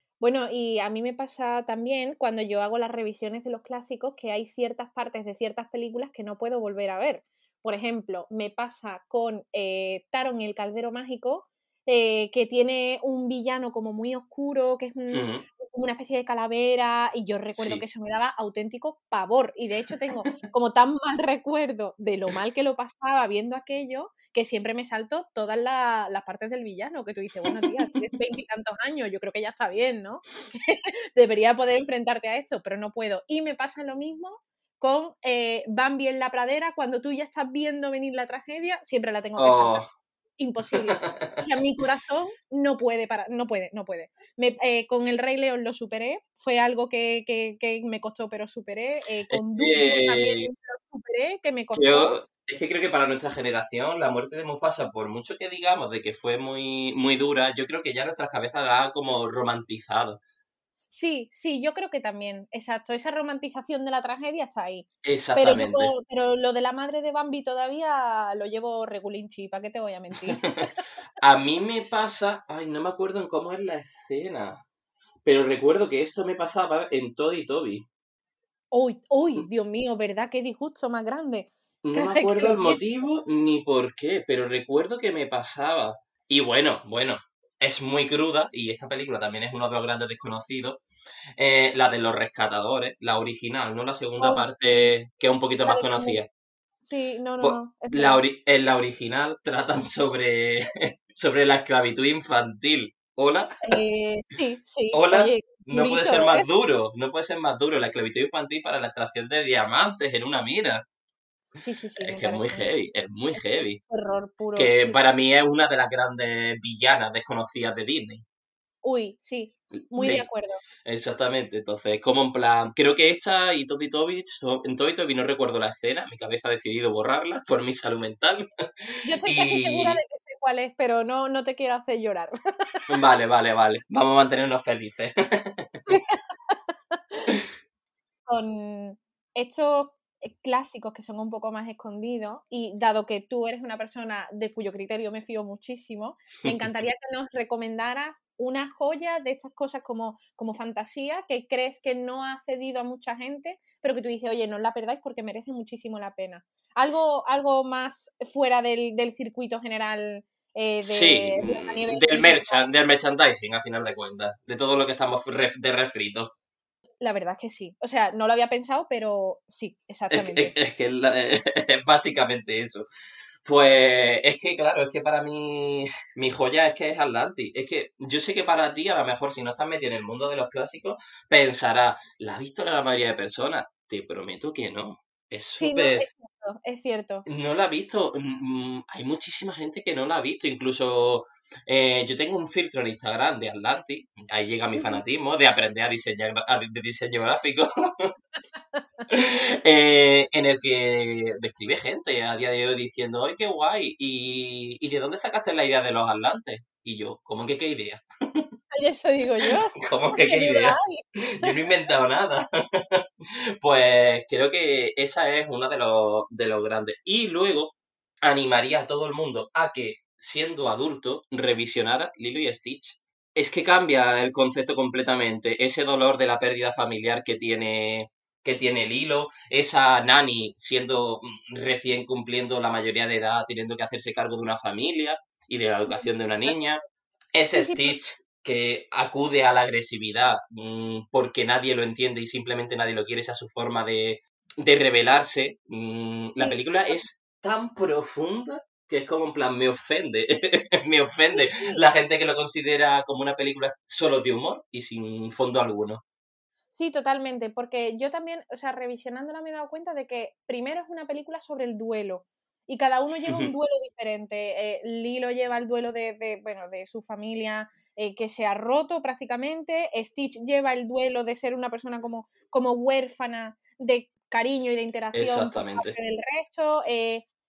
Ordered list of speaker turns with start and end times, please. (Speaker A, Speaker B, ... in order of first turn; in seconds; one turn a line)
Speaker A: 0.2-39.8
Speaker B: 15.1-15.4
Speaker B: 17.6-17.8
Speaker B: 39.4-39.9
Speaker A: 40.4-52.2
Speaker B: 40.7-41.4
Speaker B: 49.3-50.5
Speaker B: 51.7-60.2
Speaker A: 60.9-70.7
Speaker B: 65.0-65.9
Speaker B: 71.2-74.6
Speaker B: 75.2-77.8
Speaker A: 78.7-82.8
Speaker B: 81.8-90.8
Speaker B: 91.4-96.3
Speaker A: 94.2-94.9
Speaker A: 95.7-96.2
Speaker A: 96.8-98.2
Speaker B: 97.4-103.8
Speaker A: 103.6-106.5
Speaker B: 104.9-110.8
Speaker A: 111.6-112.7
Speaker B: 112.0-113.8
Speaker A: 113.3-115.0
Speaker B: 114.5-118.2
Speaker A: 118.8-120.6
Speaker B: 119.9-120.2
Speaker B: 120.8-128.4
Speaker A: 129.0-132.8
Speaker B: 129.2-130.0
Speaker B: 132.9-135.8
Speaker A: 135.9-137.3
Speaker A: 138.3-162.6
Speaker B: 160.8-166.3
Speaker A: 167.0-170.5
Speaker B: 170.1-172.8
Speaker B: 173.4-186.0
Speaker A: 185.6-187.2
Speaker B: 187.2-198.1
Speaker A: 194.7-195.0
Speaker B: 199.1-208.5
Speaker A: 208.7-211.7
Speaker B: 209.4-210.8
Speaker B: 211.3-236.8
Speaker A: 235.9-236.5
Speaker B: 237.3-256.0
Speaker A: 237.5-237.9
Speaker A: 246.4-246.9
Speaker A: 251.3-251.8
Speaker A: 256.7-277.2
Speaker B: 263.2-263.5
Speaker B: 275.1-276.0